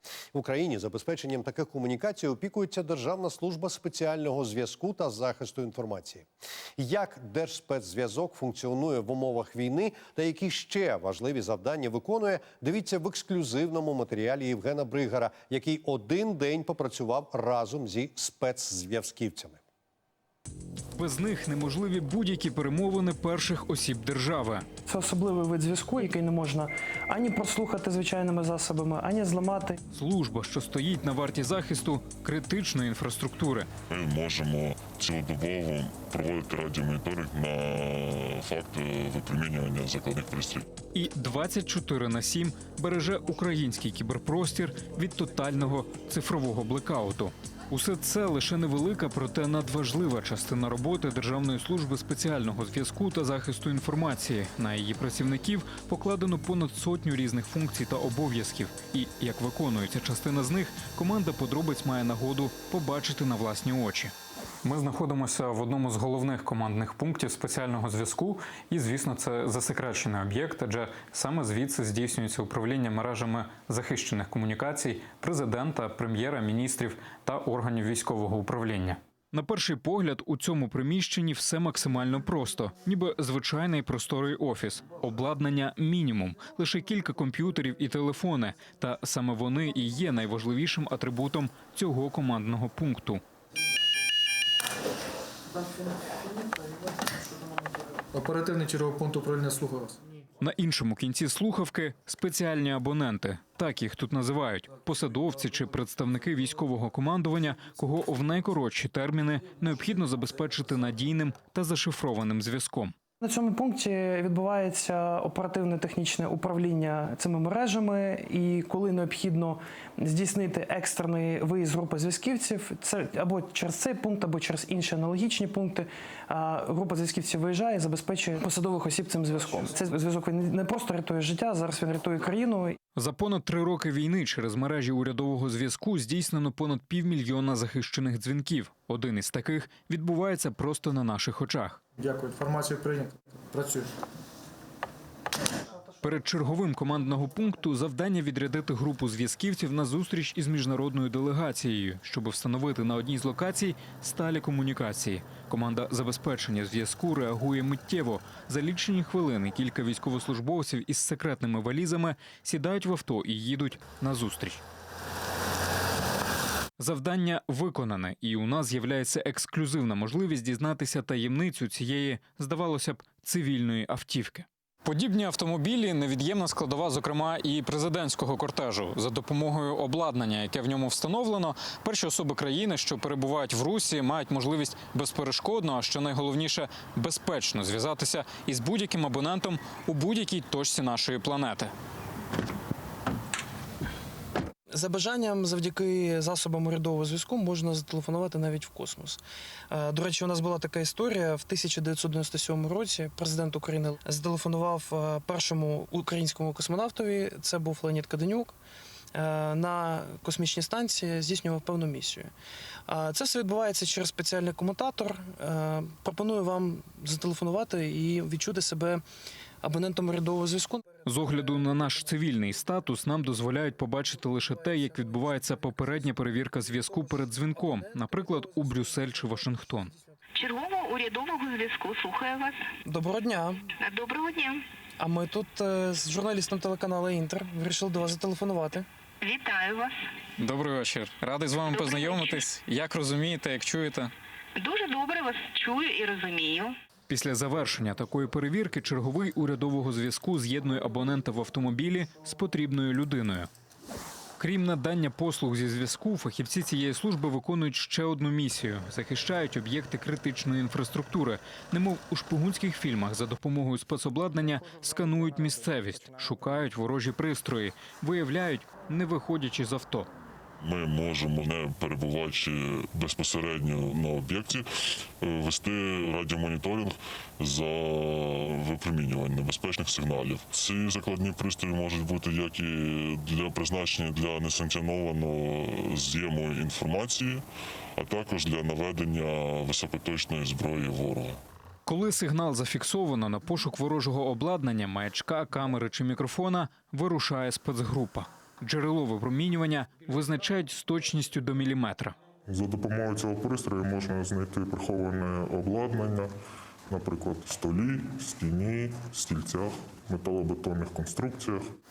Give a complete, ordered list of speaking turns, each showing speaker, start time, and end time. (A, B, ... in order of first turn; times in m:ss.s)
0:00.3-0:06.3 A
0:06.8-0:19.6 A
0:21.0-0:24.6 B
0:24.9-0:29.8 C
0:29.9-0:33.7 B
0:33.9-0:40.7 D
0:40.9-1:04.1 B
1:04.6-1:33.2 B
1:38.1-1:40.0 E
1:40.4-1:52.9 B
1:53.2-2:12.8 C
2:13.0-2:21.8 B
2:22.0-2:24.0 E
2:26.0-2:44.6 B
2:46.8-3:11.7 B
3:14.7-3:19.2 C
3:19.7-3:28.5 C
3:29.1-3:32.3 C
3:32.9-3:39.0 C
3:39.6-3:40.9 C
3:41.0-3:49.9 B
3:50.4-3:52.6 F
3:52.8-3:53.7 C
3:53.8-3:54.6 F
3:55.0-3:58.8 C
3:59.2-4:00.0 F
4:00.4-4:04.1 B
4:01.6-4:02.4 F
4:04.6-4:06.8 F
4:07.1-4:13.5 B
4:14.4-4:30.1 B
4:30.6-4:34.6 D
4:35.2-4:47.4 D
4:48.0-4:51.4 D
4:51.8-5:02.2 B
5:02.5-5:06.3 G
5:06.9-5:11.7 G